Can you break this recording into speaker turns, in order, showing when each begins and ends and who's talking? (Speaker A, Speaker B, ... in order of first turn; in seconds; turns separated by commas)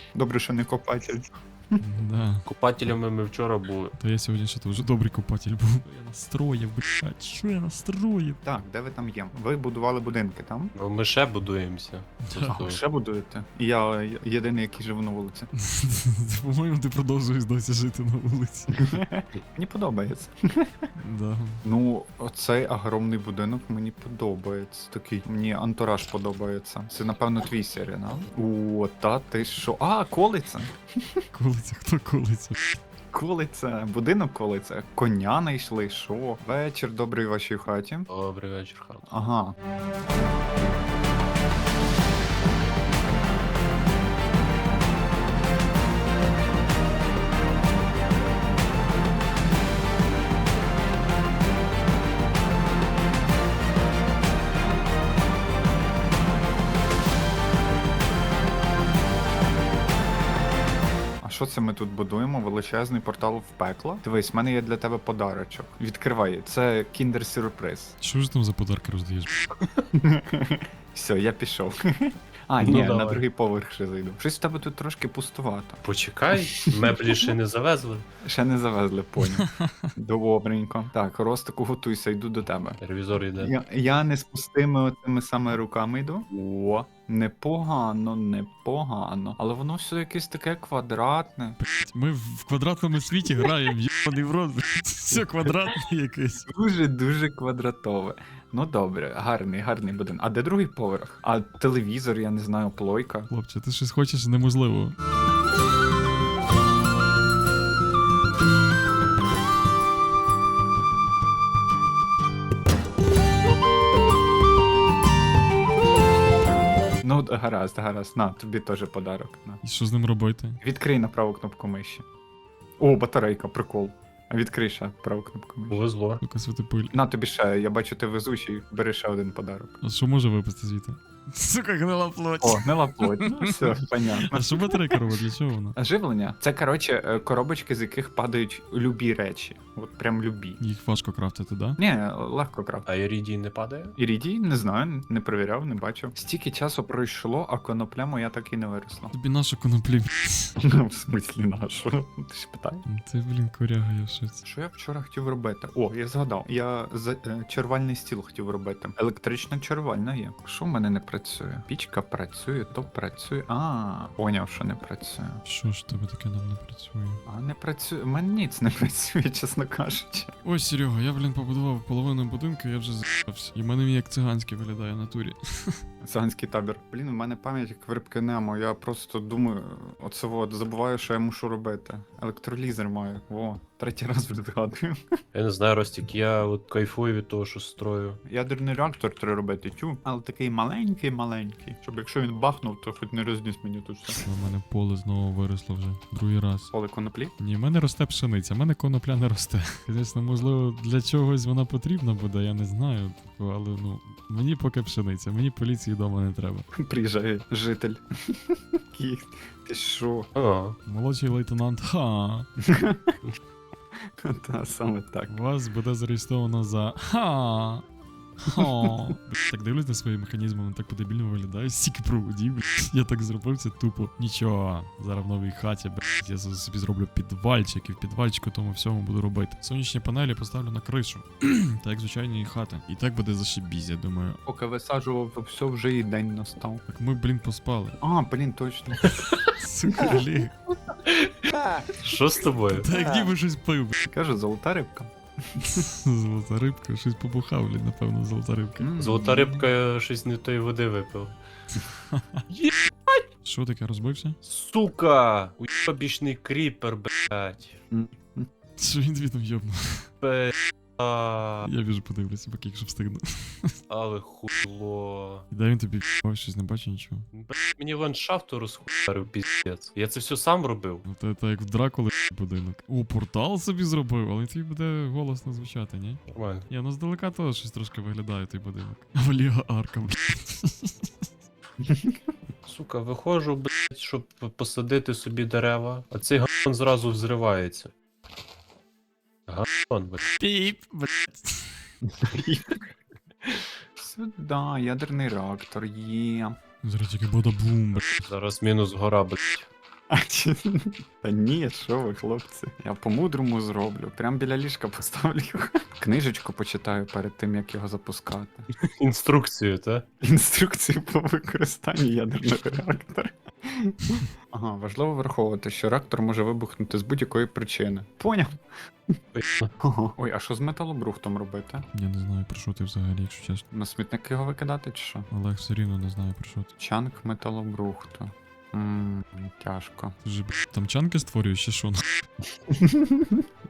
Speaker A: 0.1-1.8, Speaker B: 1.8-2.5, Speaker C: 2.5-3.9, Speaker B: 4.0-8.4, Speaker A: 8.4-10.7, Speaker C: 10.8-12.8, Speaker B: 12.2-12.6, Speaker A: 12.5-15.5, Speaker B: 15.5-19.0, Speaker A: 18.7-20.9, Speaker B: 21.0-21.6, Speaker A: 21.6-31.2, Speaker B: 31.3-32.8, Speaker A: 33.1-38.1, Speaker C: 38.1-39.1, Speaker A: 39.1-39.6, Speaker A: 61.2-68.0, Speaker B: 68.0-69.5, Speaker A: 69.9-75.8, Speaker C: 72.6-73.2, Speaker C: 75.8-78.0, Speaker A: 76.6-77.3, Speaker A: 78.2-82.8, Speaker B: 79.2-79.9, Speaker C: 82.8-83.5, Speaker A: 83.4-91.6, Speaker B: 91.6-96.5, Speaker A: 96.5-103.3, Speaker B: 103.3-105.0, Speaker A: 117.0-119.6, Speaker B: 119.6-120.6, Speaker A: 120.6-122.1, Speaker A: 122.8-125.8, Speaker C: 125.7-126.2, Speaker B: 126.2-127.0, Speaker A: 126.9-129.8, Speaker B: 129.8-135.8, Speaker A: 132.4-135.1, Speaker A: 135.8-140.6, Speaker B: 140.6-141.8, Speaker A: 141.8-142.9, Speaker C: 142.9-144.0, Speaker A: 144.0-149.1, Speaker B: 149.1-150.6, Speaker A: 150.6-152.8, Speaker B: 152.9-154.4, Speaker A: 154.5-165.4, Speaker B: 165.4-167.2, Speaker A: 167.3-170.3, Speaker B: 170.4-175.8, Speaker A: 176.0-185.2, Speaker C: 185.3-188.2, Speaker A: 188.2-194.2, Speaker B: 194.1-196.7, Speaker A: 196.7-197.3, Speaker B: 197.4-206.7, Speaker A: 206.7-210.3, Speaker C: 210.3-210.8, Speaker B: 210.9-212.5, Speaker A: 212.6-213.2, Speaker A: 214.0-215.3, Speaker B: 215.3-217.8, Speaker B: 218.4-234.4, Speaker A: 218.6-218.9, Speaker A: 234.5-236.8, Speaker B: 236.9-238.0, Speaker A: 238.0-239.4, Speaker B: 239.5-240.5, Speaker A: 239.9-240.2, Speaker C: 241.1-242.9, Speaker A: 241.6-241.9, Speaker B: 242.7-244.1, Speaker A: 242.9-243.3, Speaker A: 244.1-245.8, Speaker B: 245.6-248.9, Speaker A: 248.8-249.7, Speaker C: 249.0-251.3, Speaker B: 252.1-252.4, Speaker C: 252.5-253.2, Speaker B: 253.4-254.4, Speaker C: 254.4-257.8, Speaker A: 257.9-258.5, Speaker B: 258.8-260.1, Speaker C: 260.2-261.7, Speaker B: 261.6-263.8, Speaker C: 263.9-265.5, Speaker B: 265.5-267.3, Speaker C: 267.3-271.0, Speaker B: 271.1-281.2, Speaker C: 276.3-276.7, Speaker A: 281.8-282.2, Speaker C: 282.6-287.9, Speaker C: 289.5-290.2, Speaker B: 290.4-291.7, Speaker A: 292.1-292.9, Speaker A: 294.0-296.6, Speaker B: 296.8-298.1, Speaker C: 298.0-299.7, Speaker A: 300.1-308.7, Speaker C: 308.8-310.1, Speaker A: 310.2-319.2, Speaker C: 319.3-319.7, Speaker A: 319.8-321.9, Speaker B: 321.9-323.6, Speaker A: 323.7-325.3, Speaker B: 325.3-326.7, Speaker A: 326.8-330.2, Speaker B: 330.2-332.2, Speaker A: 332.7-333.5